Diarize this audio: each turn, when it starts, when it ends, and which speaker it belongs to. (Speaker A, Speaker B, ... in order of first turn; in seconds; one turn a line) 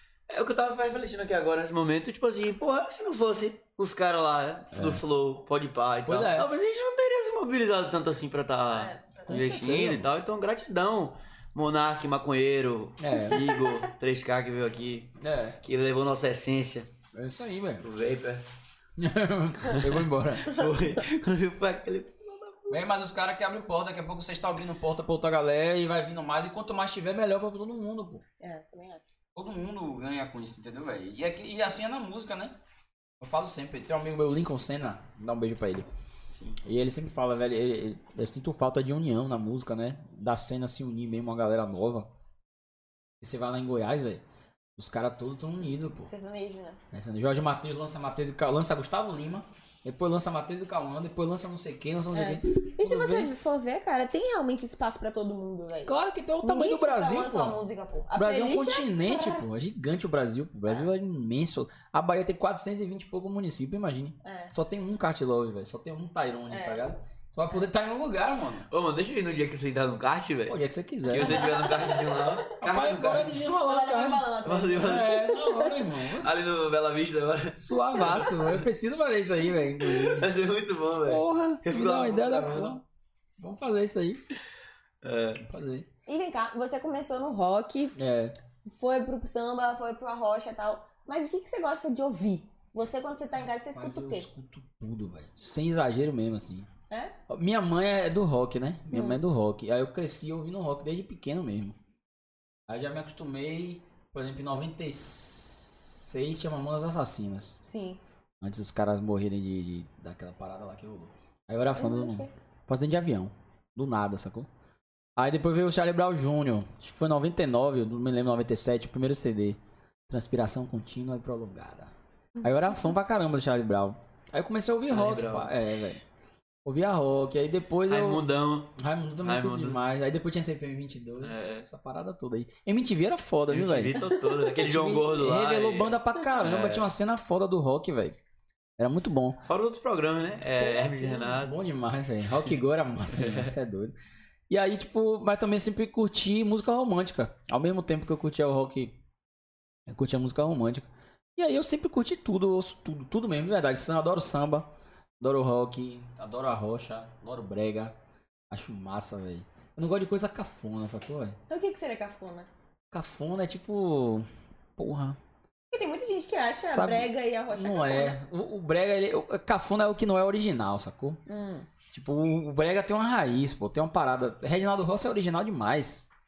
Speaker A: 0.3-16.9
Speaker B: 4.7-5.0
Speaker B: 6.1-6.5
Speaker C: 8.7-9.4
Speaker B: 9.3-10.1
Speaker B: 13.0-13.5
Speaker B: 15.2-15.6
Speaker B: 17.1-17.9
Speaker A: 17.8-18.4
Speaker B: 19.0-20.6
Speaker A: 20.4-22.7
Speaker B: 22.7-28.2
Speaker C: 28.4-29.1
Speaker B: 29.4-32.6
Speaker B: 33.2-35.9
Speaker A: 36.3-36.6
Speaker B: 36.6-42.1
Speaker B: 43.2-44.2
Speaker B: 44.8-46.1
Speaker C: 46.0-46.8
Speaker B: 46.9-53.3
Speaker C: 52.1-59.5
Speaker B: 55.9-57.6
Speaker B: 58.1-68.7
Speaker C: 64.2-64.5
Speaker C: 66.5-66.8
Speaker A: 68.7-73.4
Speaker B: 70.5-71.5
Speaker C: 71.2-72.3
Speaker B: 72.6-76.3
Speaker C: 73.5-75.9
Speaker A: 74.5-75.2
Speaker A: 76.2-78.6
Speaker B: 77.6-80.3
Speaker A: 80.0-82.8
Speaker B: 81.0-82.8
Speaker B: 83.4-84.2
Speaker A: 85.0-85.4
Speaker B: 85.4-85.9
Speaker C: 86.1-88.0
Speaker B: 88.0-88.3
Speaker C: 88.7-94.3
Speaker B: 93.7-96.7
Speaker C: 96.9-97.2
Speaker B: 97.3-101.8
Speaker C: 98.9-99.2
Speaker B: 102.7-107.6
Speaker C: 107.6-108.0
Speaker B: 108.4-114.5
Speaker C: 111.8-112.3
Speaker B: 115.2-121.9
Speaker C: 122.4-122.9
Speaker B: 122.4-126.0
Speaker A: 124.9-125.5
Speaker B: 126.7-138.2
Speaker A: 127.9-129.8
Speaker A: 131.2-131.7
Speaker A: 133.5-136.9
Speaker B: 138.8-139.4
Speaker A: 139.4-141.5
Speaker B: 140.6-143.9
Speaker A: 143.1-143.5
Speaker B: 144.5-149.0
Speaker B: 149.9-157.9
Speaker B: 158.5-161.4
Speaker C: 161.5-162.5
Speaker B: 162.9-165.2
Speaker C: 165.7-168.2
Speaker B: 166.5-171.2
Speaker C: 171.3-171.7
Speaker B: 171.9-176.1